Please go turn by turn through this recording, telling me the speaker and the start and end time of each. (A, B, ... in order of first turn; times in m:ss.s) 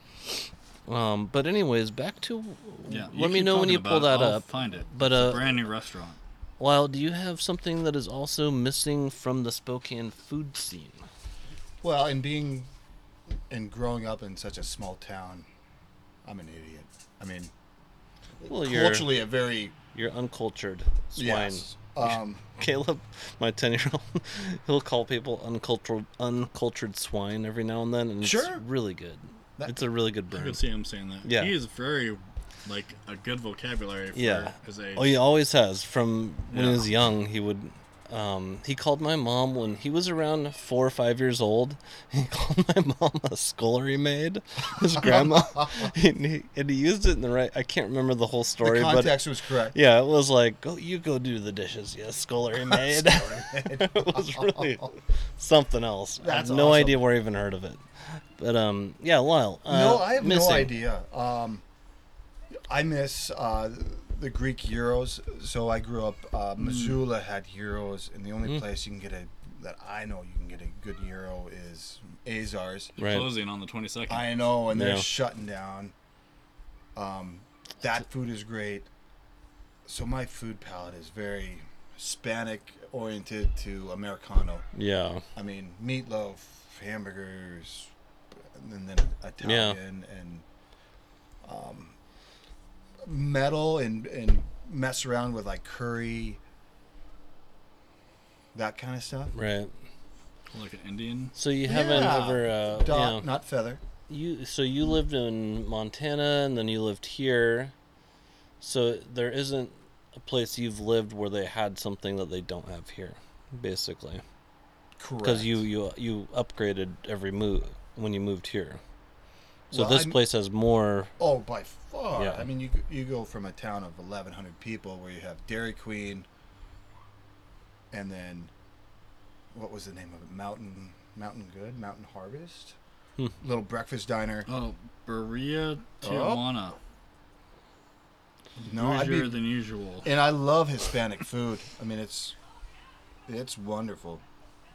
0:00.9-0:05.5 A
0:02.9-0:06.2 B
0:06.6-0:11.0 A
0:11.8-0:12.7 C
0:13.5-0:15.5 C
0:16.2-0:17.5 C
0:18.4-0:19.8 C
0:18.5-0:19.2 A
0:19.9-0:30.6 A
0:21.2-0:22.4 C
0:28.2-0:28.6 C
0:30.3-0:35.2 B
0:31.2-0:31.5 A
0:34.1-1:00.7 A
0:36.5-0:36.9 B
0:48.6-0:49.8 C
0:52.6-0:54.9 C
0:56.2-0:57.1 C
0:59.7-1:01.6 C
1:02.7-1:12.9 C
1:06.6-1:07.0 B
1:13.0-1:13.3 A
1:13.0-1:14.4 B
1:14.1-1:15.9 C
1:14.7-1:15.1 A
1:17.0-1:18.9 C
1:19.9-1:24.7 C
1:24.7-1:25.2 A
1:25.4-1:27.9 C
1:28.5-1:30.4 C
1:29.4-1:29.8 A
1:31.4-1:32.0 C
1:33.0-1:36.4 C
1:38.5-1:39.4 C
1:39.3-1:39.7 A
1:40.5-1:41.4 B
1:41.4-1:43.3 A
1:41.6-1:43.8 C
1:44.1-1:47.7 A
1:48.6-1:54.2 A
1:55.0-1:55.6 C
1:55.2-1:58.8 A
1:59.7-2:00.2 C
1:59.7-2:01.1 A
2:01.2-2:06.3 C
2:02.2-2:02.4 A
2:07.9-2:08.5 C
2:09.5-2:12.8 C
2:13.4-2:14.5 C
2:14.5-2:16.8 B
2:16.0-2:16.4 C
2:18.6-2:20.1 B
2:18.6-2:19.4 C
2:20.0-2:22.4 C
2:23.3-2:24.2 C